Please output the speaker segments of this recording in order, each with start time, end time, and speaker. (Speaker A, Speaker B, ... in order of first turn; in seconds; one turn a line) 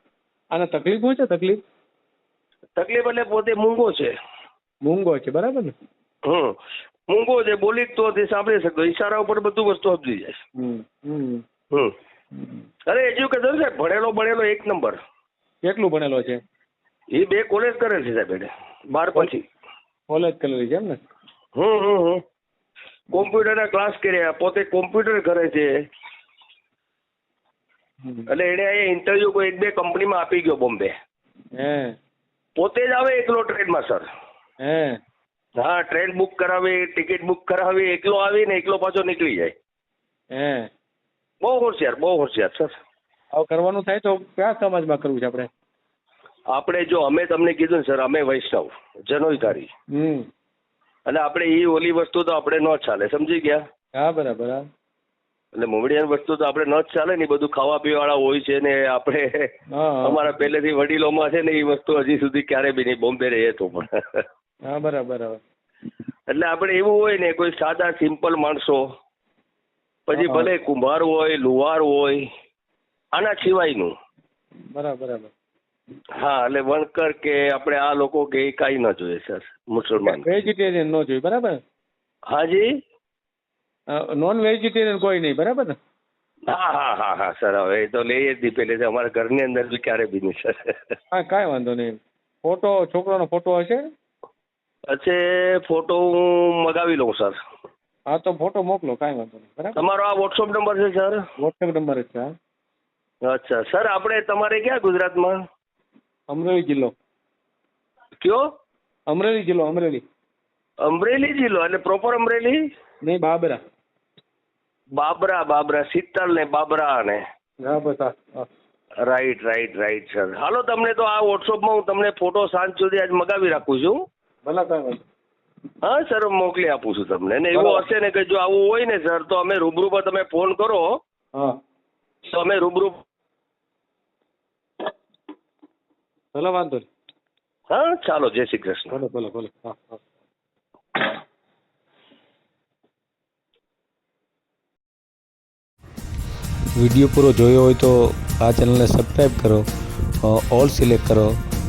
Speaker A: 0.5-1.6
Speaker B: 2.8-4.1
Speaker A: 4.8-5.7
Speaker B: 6.2-6.5
Speaker B: 7.1-10.4
Speaker A: 10.6-11.4
Speaker A: 12.3-12.7
Speaker B: 12.9-15.0
Speaker A: 15.7-16.4
Speaker B: 17.1-19.5
Speaker A: 20.1-21.0
Speaker B: 21.6-22.2
Speaker B: 23.1-25.7
Speaker A: 28.0-28.3
Speaker B: 28.3-30.9
Speaker A: 31.6-32.0
Speaker B: 32.6-34.1
Speaker A: 34.6-35.0
Speaker B: 35.6-39.5
Speaker A: 40.3-40.7
Speaker B: 41.4-42.7
Speaker A: 43.3-45.5
Speaker B: 46.5-49.7
Speaker A: 49.9-50.3
Speaker B: 51.1-53.6
Speaker A: 54.0-54.6
Speaker B: 55.5-64.2
Speaker A: 59.7-60.4
Speaker A: 64.7-65.4
Speaker B: 66.3-68.9
Speaker B: 70.1-72.3
Speaker A: 70.2-70.5
Speaker B: 73.2-73.9
Speaker A: 74.7-75.3
Speaker B: 76.2-80.3
Speaker A: 80.0-81.6
Speaker B: 82.3-82.7
Speaker A: 83.9-85.8
Speaker B: 86.5-91.0
Speaker A: 91.1-93.8
Speaker B: 94.9-97.4
Speaker A: 98.1-99.8
Speaker B: 99.8-101.2
Speaker A: 101.4-102.3
Speaker B: 103.3-105.4
Speaker A: 106.3-106.9
Speaker B: 108.2-108.5
Speaker A: 109.1-110.0
Speaker B: 110.8-112.6
Speaker A: 113.0-113.6
Speaker B: 115.0-117.2
Speaker A: 117.6-118.5
Speaker B: 119.0-124.0
Speaker A: 124.5-125.0
Speaker B: 125.8-131.0
Speaker A: 127.5-127.8
Speaker B: 132.2-133.0
Speaker A: 136.3-136.9
Speaker B: 137.7-139.0
Speaker A: 138.9-140.0
Speaker C: 146.8-149.7
Speaker C: 150.2-151.3